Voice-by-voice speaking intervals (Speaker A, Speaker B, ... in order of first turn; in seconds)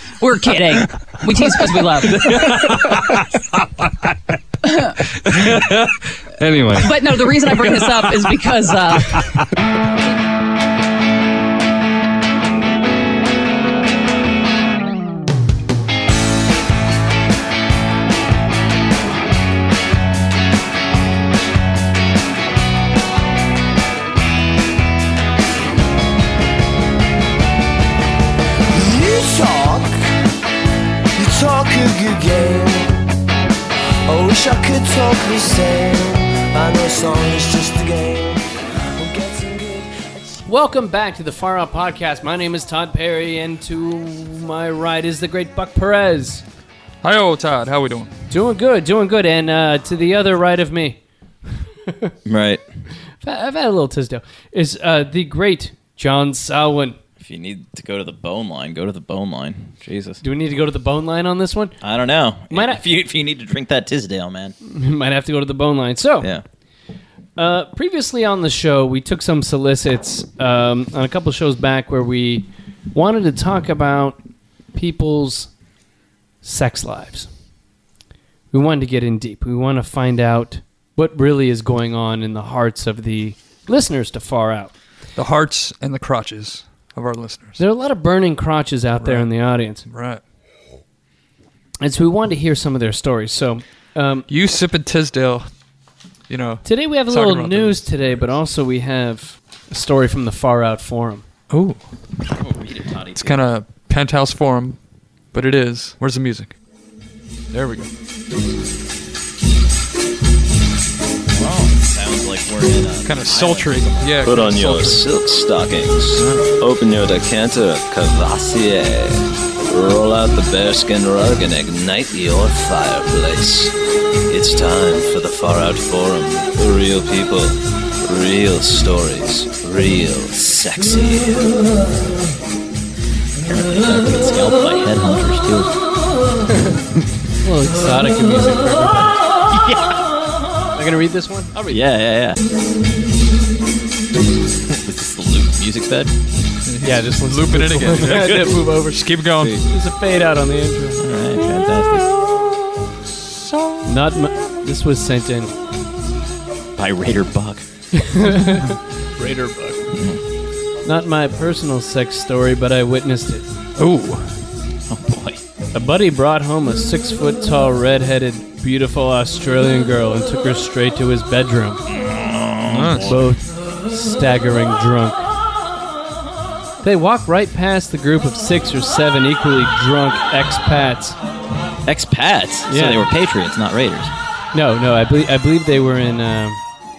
Speaker A: 0.2-2.5, 6.8-9.2
Speaker B: 0.8-3.3, 5.3-8.4, 8.9-9.4
Speaker C: 28.7-30.0, 31.1-33.1, 34.1-40.1
Speaker D: 40.5-46.4, 48.3-51.0, 51.9-52.1, 53.2-57.0, 60.2-61.8, 62.5-62.8, 64.6-66.3, 67.4-74.2, 74.7-75.5, 76.4-77.3, 78.5-84.7, 87.6-89.8, 91.8-94.3, 96.6-101.3, 137.4-139.2, 140.8-141.8, 146.8-151.0, 153.9-155.5, 157.9-159.9, 160.8-163.4, 165.7-171.8, 173.1-175.3, 176.8-181.2, 182.7-183.1, 184.5-186.6
Speaker E: 47.0-48.1, 85.2-87.6, 89.0-90.2, 94.3-95.5, 96.3-98.3, 101.5-101.8, 103.2-104.8, 105.3-106.5, 107.5-107.9, 113.0-115.0, 116.2-116.5, 146.7-149.6, 153.1-154.0, 163.8-164.3, 172.7-173.2
Speaker F: 52.2-52.6, 57.2-60.2, 61.8-64.5, 102.3-103.4, 111.3-114.2, 133.4-135.7, 139.5-140.0, 141.7-142.4, 144.7-146.1, 151.0-152.1, 156.8-157.7, 159.9-160.2, 164.9-165.4, 171.9-173.2, 181.9-184.1
Speaker G: 114.2-123.8, 124.3-131.8